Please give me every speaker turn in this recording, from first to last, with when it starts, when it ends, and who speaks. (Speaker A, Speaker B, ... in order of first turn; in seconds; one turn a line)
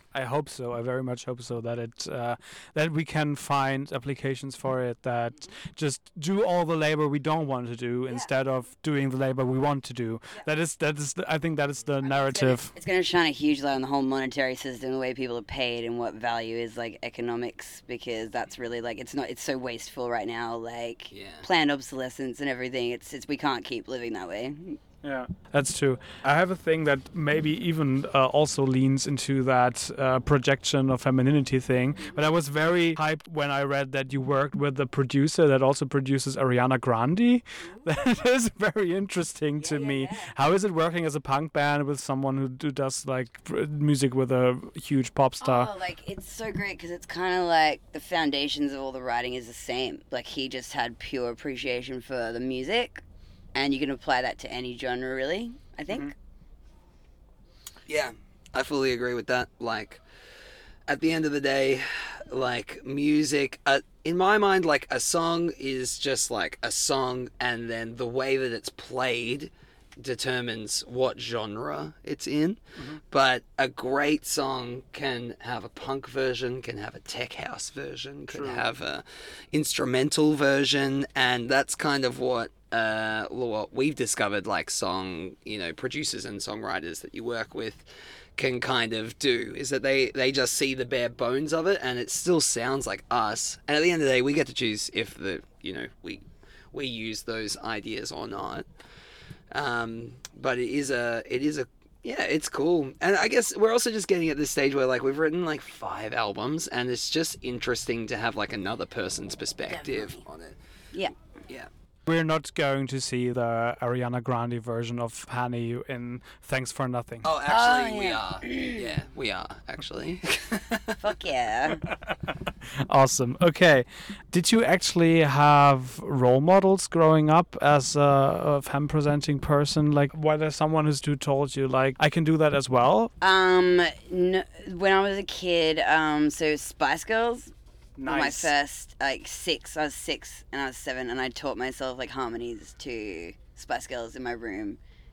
Speaker A: 0.1-12.7
Speaker B: 12.0-24.8
Speaker C: 21.1-21.5
Speaker A: 25.0-45.7
Speaker B: 37.6-37.9
Speaker B: 39.6-40.3
Speaker B: 45.4-53.0
Speaker B: 53.5-56.1
Speaker C: 57.9-60.0
Speaker C: 60.9-87.8
Speaker A: 78.3-78.7
Speaker C: 88.4-98.7
Speaker C: 99.5-110.6
Speaker B: 109.7-110.2
Speaker A: 112.0-117.2
Speaker C: 117.2-121.0
Speaker B: 117.5-118.9
Speaker B: 121.0-121.8
Speaker A: 121.9-122.1
Speaker A: 122.8-133.1
Speaker B: 133.2-137.5
Speaker A: 138.0-138.5
Speaker B: 138.1-144.8